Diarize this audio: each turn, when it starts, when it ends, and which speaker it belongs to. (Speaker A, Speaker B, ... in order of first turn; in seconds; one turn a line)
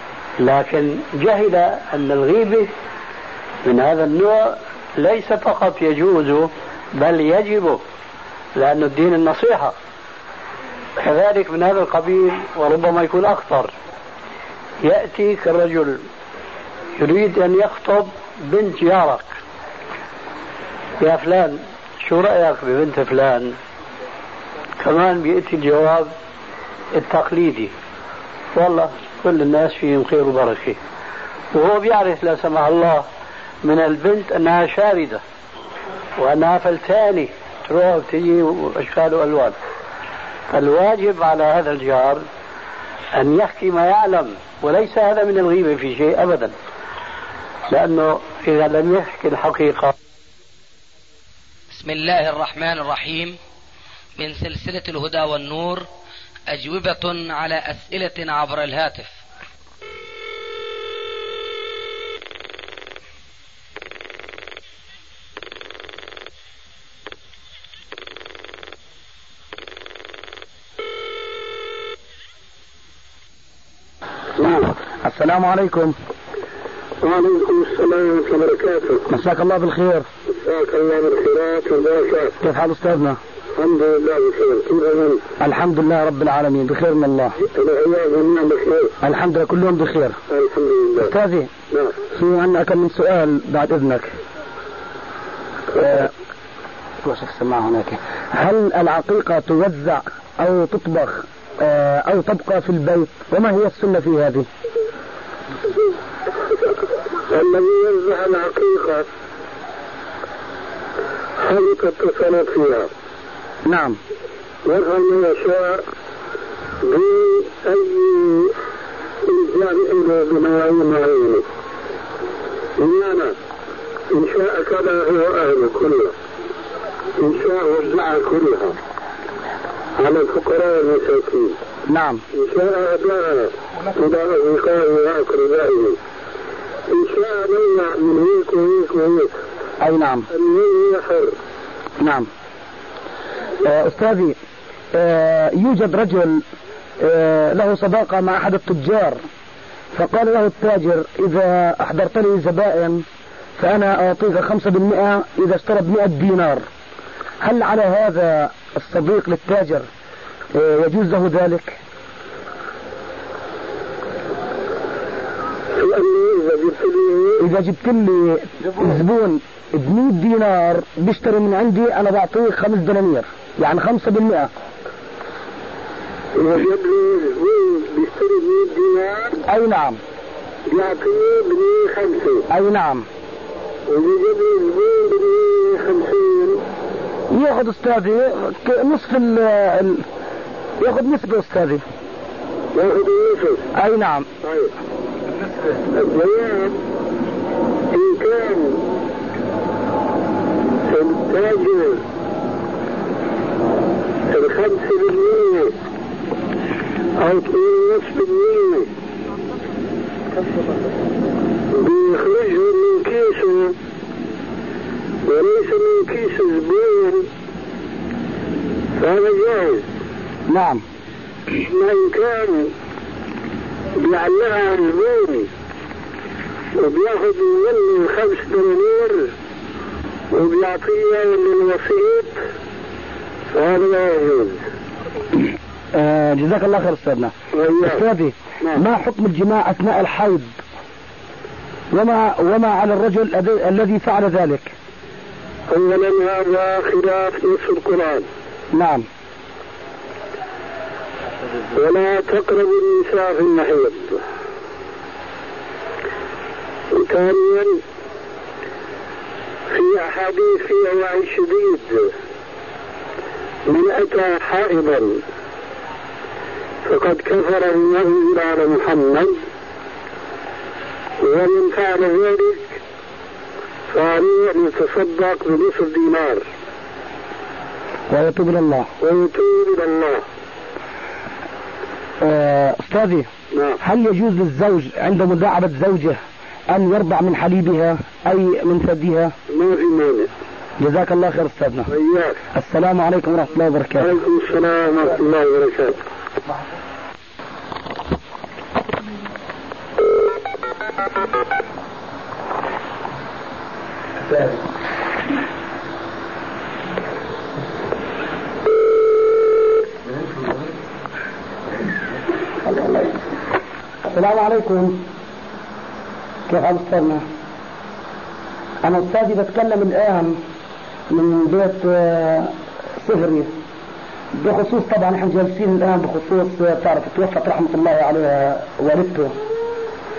Speaker A: 0.4-2.7
Speaker A: 3.6-7.8
Speaker A: 8.5-9.7
Speaker A: 11.0-13.7
Speaker A: 14.8-16.0
Speaker A: 17.0-19.3
Speaker A: 21.0-23.6
Speaker A: 24.8-26.1
Speaker A: 26.9-27.7
Speaker A: 28.5-30.8
Speaker A: 31.5-33.0
Speaker A: 33.6-35.2
Speaker A: 36.2-39.5
Speaker A: 40.5-42.2
Speaker A: 43.1-46.5
Speaker A: 47.7-49.9
Speaker B: 51.7-53.4
Speaker B: 54.2-55.8
Speaker B: 56.5-59.2
Speaker C: 74.4-75.9
Speaker D: 77.0-79.0
Speaker C: 79.1-80.0
Speaker D: 80.3-82.3
Speaker C: 82.4-83.2
Speaker D: 83.5-85.2
Speaker C: 85.4-87.3
Speaker D: 87.4-88.9
Speaker C: 89.0-90.2
Speaker D: 90.3-91.1
Speaker C: 91.0-91.5
Speaker D: 91.7-92.0
Speaker C: 92.1-94.1
Speaker C: 95.7-96.1
Speaker C: 97.0-104.5
Speaker D: 107.3-109.0
Speaker D: 111.4-112.9
Speaker C: 113.7-114.0
Speaker D: 114.6-115.8
Speaker D: 116.8-118.5
Speaker D: 119.2-121.4
Speaker D: 122.8-123.3
Speaker D: 124.1-126.1
Speaker D: 127.2-128.8
Speaker D: 130.0-131.6
Speaker C: 131.9-132.2
Speaker D: 132.3-136.0
Speaker D: 136.9-139.3
Speaker C: 139.8-140.3
Speaker D: 140.3-141.3
Speaker C: 142.0-142.3
Speaker C: 143.6-144.4
Speaker C: 144.9-146.4
Speaker C: 147.0-149.2
Speaker C: 149.9-153.0
Speaker C: 153.6-156.7
Speaker C: 157.4-159.9
Speaker C: 160.5-161.8
Speaker D: 165.8-167.4
Speaker C: 167.4-174.5
Speaker D: 176.3-179.4
Speaker C: 179.5-180.0
Speaker D: 180.7-182.4
Speaker C: 182.5-183.1
Speaker D: 183.9-186.6
Speaker C: 187.3-190.0
Speaker C: 190.8-191.8
Speaker D: 192.7-193.7
Speaker C: 193.7-194.3
Speaker D: 194.4-194.7
Speaker D: 195.9-196.7
Speaker D: 197.9-198.8
Speaker D: 200.9-202.0
Speaker D: 204.3-205.7
Speaker D: 207.2-208.9
Speaker D: 211.7-213.7
Speaker D: 215.2-217.3
Speaker D: 219.0-219.8
Speaker C: 220.5-220.8
Speaker D: 221.6-222.7
Speaker D: 223.9-225.5
Speaker D: 226.8-229.3
Speaker D: 230.3-232.3
Speaker D: 233.5-234.6
Speaker C: 235.9-240.5
Speaker D: 237.5-238.0
Speaker C: 241.9-244.7
Speaker D: 245.7-248.3
Speaker C: 248.7-249.1
Speaker D: 251.7-254.2
Speaker D: 256.9-257.8
Speaker D: 259.7-262.1
Speaker D: 263.6-265.2
Speaker D: 266.8-269.4
Speaker D: 271.2-272.7
Speaker D: 273.9-276.4
Speaker C: 278.1-278.9
Speaker D: 279.0-280.2
Speaker C: 282.2-283.3
Speaker D: 283.5-283.8
Speaker C: 283.8-289.3
Speaker D: 289.5-290.3
Speaker C: 290.8-291.9
Speaker D: 291.9-292.4
Speaker C: 292.5-294.1
Speaker D: 294.0-296.0
Speaker C: 312.6-313.1
Speaker C: 314.1-315.0
Speaker C: 316.5-317.2
Speaker C: 318.8-320.4
Speaker C: 321.1-323.5
Speaker C: 324.3-329.3